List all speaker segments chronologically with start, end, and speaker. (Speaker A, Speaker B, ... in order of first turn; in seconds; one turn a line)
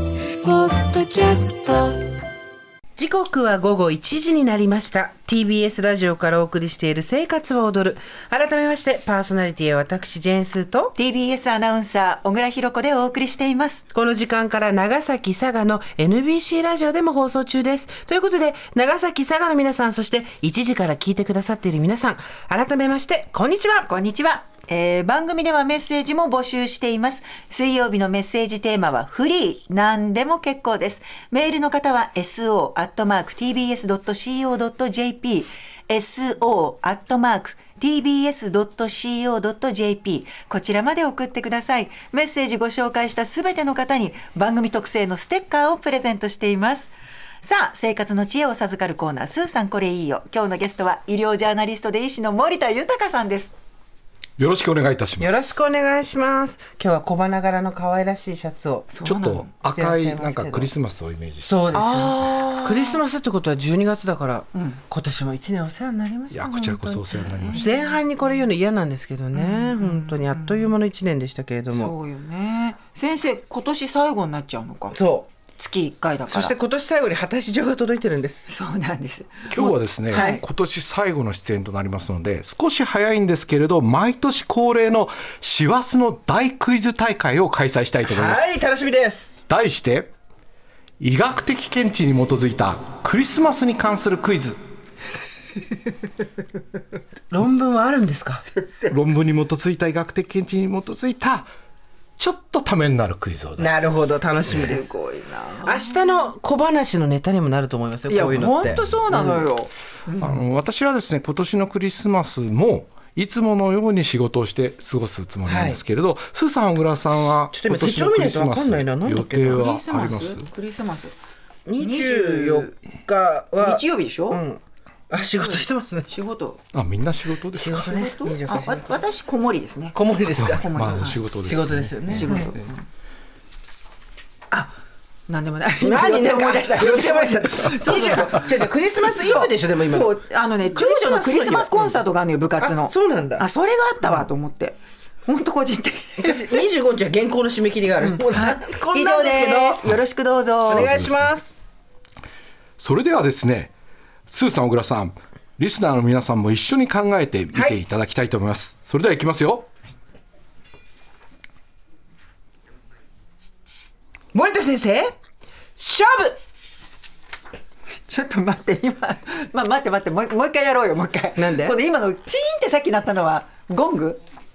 Speaker A: 3.0-10.9
Speaker B: 11.0-13.8
Speaker A: 13.9-23.9
Speaker B: 23.9-46.9
Speaker B: 47.4-53.5
Speaker C: 54.4-55.5
Speaker A: 55.2-58.9
Speaker B: 58.9-59.5
Speaker C: 59.0-61.7
Speaker A: 59.6-60.7
Speaker A: 61.4-71.9
Speaker B: 61.8-63.0
Speaker B: 64.5-64.8
Speaker C: 66.3-67.7
Speaker B: 67.3-68.0
Speaker B: 69.3-70.7
Speaker B: 71.7-75.0
Speaker A: 74.9-75.3
Speaker B: 75.6-76.5
Speaker A: 76.3-78.5
Speaker B: 78.5-80.4
Speaker C: 79.5-88.5
Speaker A: 80.1-80.4
Speaker A: 88.1-89.4
Speaker C: 89.5-90.1
Speaker C: 91.0-94.6
Speaker A: 97.3-98.4
Speaker B: 98.5-99.0
Speaker C: 98.9-101.5
Speaker C: 102.2-104.0
Speaker A: 103.6-104.9
Speaker B: 104.4-106.0
Speaker C: 104.5-104.7
Speaker A: 105.6-109.5
Speaker B: 108.1-110.4
Speaker C: 108.4-109.0
Speaker C: 110.2-120.5
Speaker A: 115.5-115.8
Speaker A: 117.5-119.7
Speaker B: 119.5-121.1
Speaker A: 121.7-126.1
Speaker B: 121.8-122.7
Speaker B: 123.6-124.4
Speaker B: 125.4-126.6
Speaker C: 126.7-127.9
Speaker A: 127.5-129.0
Speaker B: 127.7-131.2
Speaker A: 129.9-132.6
Speaker C: 130.4-132.7
Speaker B: 132.1-132.9
Speaker B: 134.5-146.7
Speaker A: 135.8-140.2
Speaker A: 140.7-142.0
Speaker A: 142.6-143.5
Speaker A: 146.2-149.9
Speaker B: 148.0-151.0
Speaker A: 150.7-151.5
Speaker C: 150.7-151.3
Speaker C: 152.8-153.7
Speaker C: 154.3-159.7
Speaker A: 157.5-157.8
Speaker A: 164.3-165.2
Speaker A: 165.8-166.4
Speaker B: 168.1-174.2
Speaker A: 171.3-171.8